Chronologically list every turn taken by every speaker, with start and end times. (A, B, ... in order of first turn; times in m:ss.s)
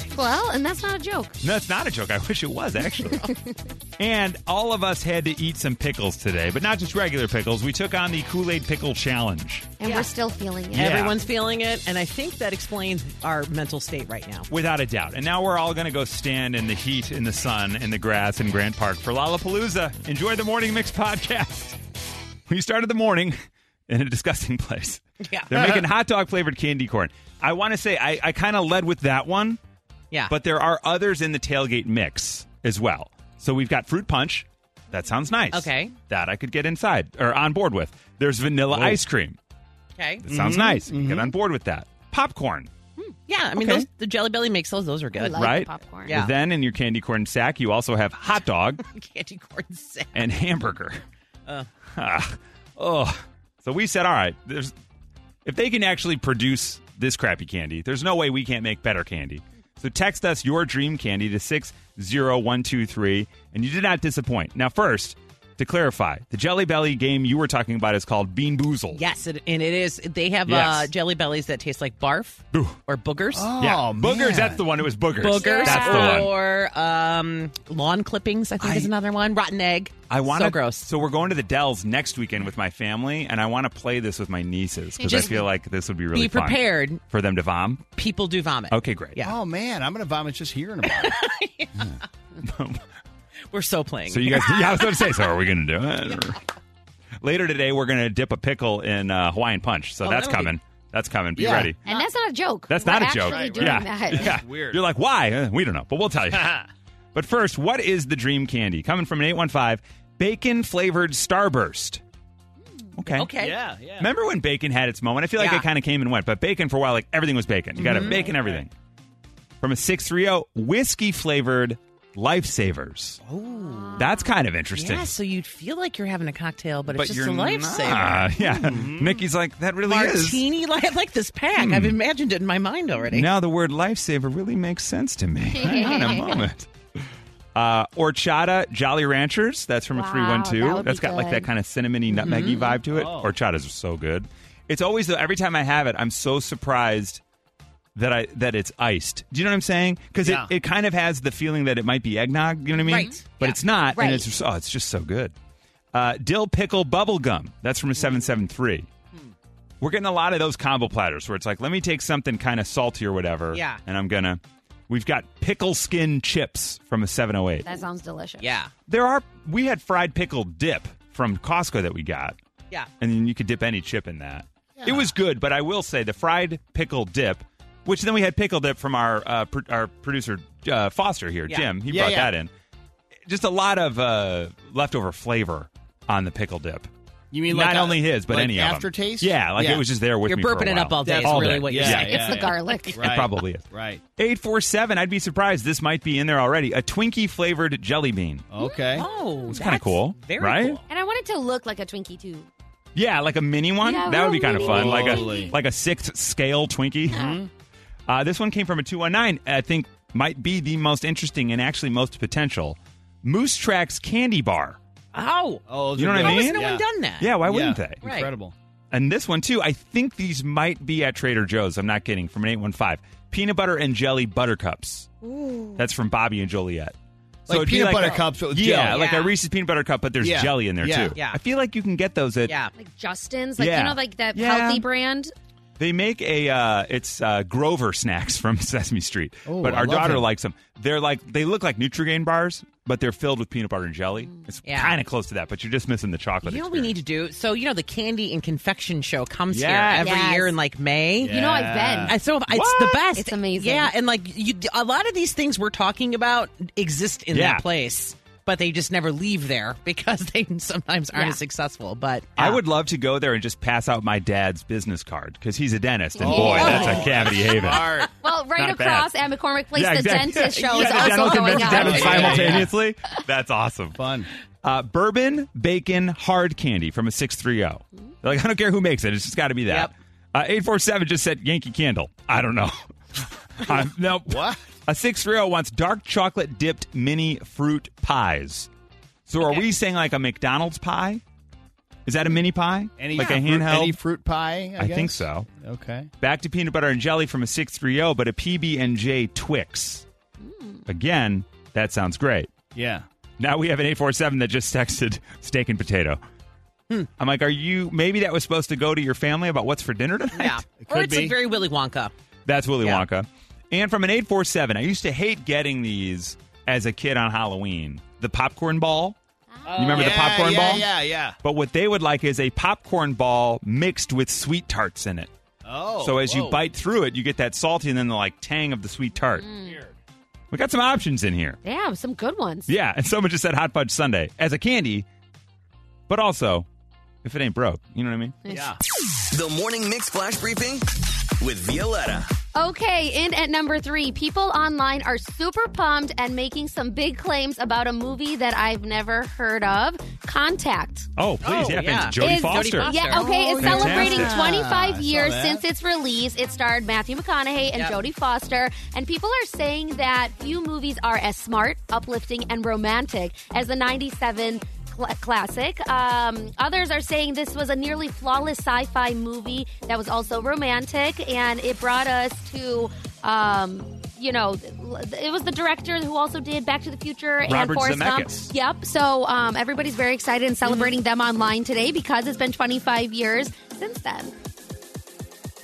0:00.1-0:01.4 A
0:01.4-0:03.2 B
0:04.0-0:09.7 B
0:09.8-0:11.1 A
0:09.8-0:10.1 C
0:10.7-0:14.5 C
0:10.7-0:11.1 B
0:14.5-0:21.8 B
0:22.5-0:29.6 B
0:25.2-0:25.5 C
0:30.3-0:39.4 B
0:35.5-0:35.9 C
0:38.7-0:39.0 D
0:40.0-0:40.2 C
0:40.2-0:42.7 B
0:40.3-0:41.3 D
0:43.3-0:45.5 C
0:43.6-0:43.9 B
0:45.1-0:46.2 A
0:45.4-0:48.8 B
0:46.1-0:46.3 C
0:48.8-0:50.3 C
0:50.1-0:51.0 B
0:52.0-0:54.7 B
0:55.4-1:09.0 B
1:08.9-1:13.5 C
1:10.5-1:10.9 B
1:13.3-1:14.7 D
1:13.6-1:16.3 B
1:15.2-1:20.9 C
1:15.4-1:16.2 A
1:18.6-1:18.9 B
1:20.1-1:27.8 B
1:25.0-1:25.4 A
1:25.0-1:25.4 C
1:26.1-1:27.0 C
1:28.0-1:29.3 C
1:28.7-1:29.2 B
1:29.2-1:31.2 D
1:30.9-1:32.0 C
1:31.8-1:32.8 B
1:33.5-1:35.1 C
1:34.1-1:36.4 B
1:37.2-1:41.8 B
1:40.0-1:40.5 C
1:41.4-1:42.1 D
1:41.9-1:44.4 A
1:42.7-1:46.6 B
1:43.0-1:44.8 D
1:46.3-1:46.7 D
1:47.1-1:52.0 B
1:53.0-1:53.3 B
1:53.2-1:53.6 C
1:53.4-1:54.1 D
1:54.0-1:58.7 B
1:55.4-1:55.7 C
1:57.8-1:58.2 C
1:58.1-1:58.6 D
1:59.6-2:03.2 B
2:03.2-2:04.0 C
2:03.5-2:04.3 A
2:04.0-2:05.1 B
2:04.8-2:08.4 C
2:06.9-2:10.4 B
2:08.6-2:09.2 D
2:09.8-2:13.3 C
2:11.6-2:12.0 B
2:13.1-2:16.7 B
2:15.5-2:16.4 A
2:17.5-2:27.2 B
2:19.9-2:21.5 A
2:22.1-2:22.7 C
2:22.9-2:23.3 D
2:27.9-2:35.3 B
2:30.2-2:30.5 D
2:32.8-2:33.6 C
2:32.9-2:33.2 A
2:33.9-2:34.3 A
2:35.9-2:38.9 B
2:39.8-2:47.7 B
2:43.5-2:43.8 C
2:47.6-2:48.5 A
2:48.4-2:48.7 C
2:48.9-2:52.4 B
2:53.0-3:02.5 B
2:54.8-2:55.1 D
3:01.8-3:02.3 D
3:03.3-3:06.9 B
3:07.3-3:09.8 D
3:07.5-3:12.2 B
3:10.3-3:12.8 C
3:11.0-3:14.0 D
3:12.0-3:13.0 A
3:13.0-3:13.6 B
3:14.2-3:18.5 B
3:18.5-3:19.1 D
3:18.6-3:19.6 A
3:18.9-3:20.8 C
3:19.5-3:20.8 B
3:20.9-3:22.5 A
3:22.9-3:27.2 B
3:23.8-3:25.5 A
3:24.5-3:25.5 D
3:27.1-3:27.5 D
3:27.1-3:27.4 A
3:28.1-3:34.8 B
3:35.1-3:37.3 C
3:35.7-3:36.8 D
3:36.0-3:36.6 B
3:37.2-3:38.0 B
3:37.4-3:38.5 D
3:38.0-3:38.3 C
3:38.9-3:45.1 B
3:45.2-3:45.8 C
3:45.8-3:46.9 B
3:47.5-3:52.6 B
3:47.5-3:49.0 D
3:48.9-3:49.3 C
3:50.2-3:51.2 D
3:52.5-3:52.7 C
3:52.8-3:55.3 A
3:53.6-3:54.8 B
3:55.8-4:07.0 B
3:59.4-4:00.3 D
4:04.6-4:05.0 C
4:06.4-4:11.4 C
4:09.5-4:10.1 B
4:10.0-4:10.5 A
4:11.2-4:12.2 D
4:11.2-4:12.2 A
4:12.0-4:22.6 C
4:12.5-4:13.0 B
4:13.1-4:13.9 A
4:17.3-4:17.6 B
4:21.1-4:21.4 A
4:22.4-4:27.9 B
4:26.2-4:28.1 D
4:26.3-4:26.9 A
4:26.5-4:27.0 C
4:27.8-4:28.0 C
4:28.2-4:32.7 A
4:28.6-4:29.1 B
4:29.7-4:34.0 B
4:30.9-4:32.7 D
4:31.3-4:32.6 C
4:34.0-4:34.3 D
4:34.6-4:48.7 B
4:44.3-4:44.6 D
4:49.3-4:51.2 B
4:52.1-4:54.0 B
4:53.0-4:56.1 D
4:54.8-4:55.5 B
4:56.2-5:00.1 B
5:00.4-5:00.8 A
5:00.9-5:02.5 B
5:02.8-5:03.0 D
5:03.4-5:06.2 B
5:07.2-5:10.6 B
5:10.3-5:12.1 C
5:10.8-5:11.4 D
5:12.4-5:19.2 B
5:19.6-5:20.2 C
5:19.7-5:21.4 D
5:19.8-5:20.9 B
5:21.4-5:25.3 B
5:25.6-5:26.5 D
5:26.0-5:29.5 B
5:29.4-5:29.8 A
5:29.6-5:29.9 D
5:30.5-5:31.6 B
5:31.6-5:32.7 A
5:32.7-5:35.1 B
5:36.1-5:36.7 B
5:37.2-5:38.4 B
5:38.5-5:38.8 D
5:39.3-5:40.9 E
5:41.4-5:42.3 E
5:42.6-5:51.1 A
5:51.2-5:52.9 B
5:51.4-5:53.6 C
5:52.2-6:24.3 A
5:53.1-5:55.6 D
5:53.6-5:54.4 B
6:17.5-6:18.5 B
6:20.6-6:20.9 C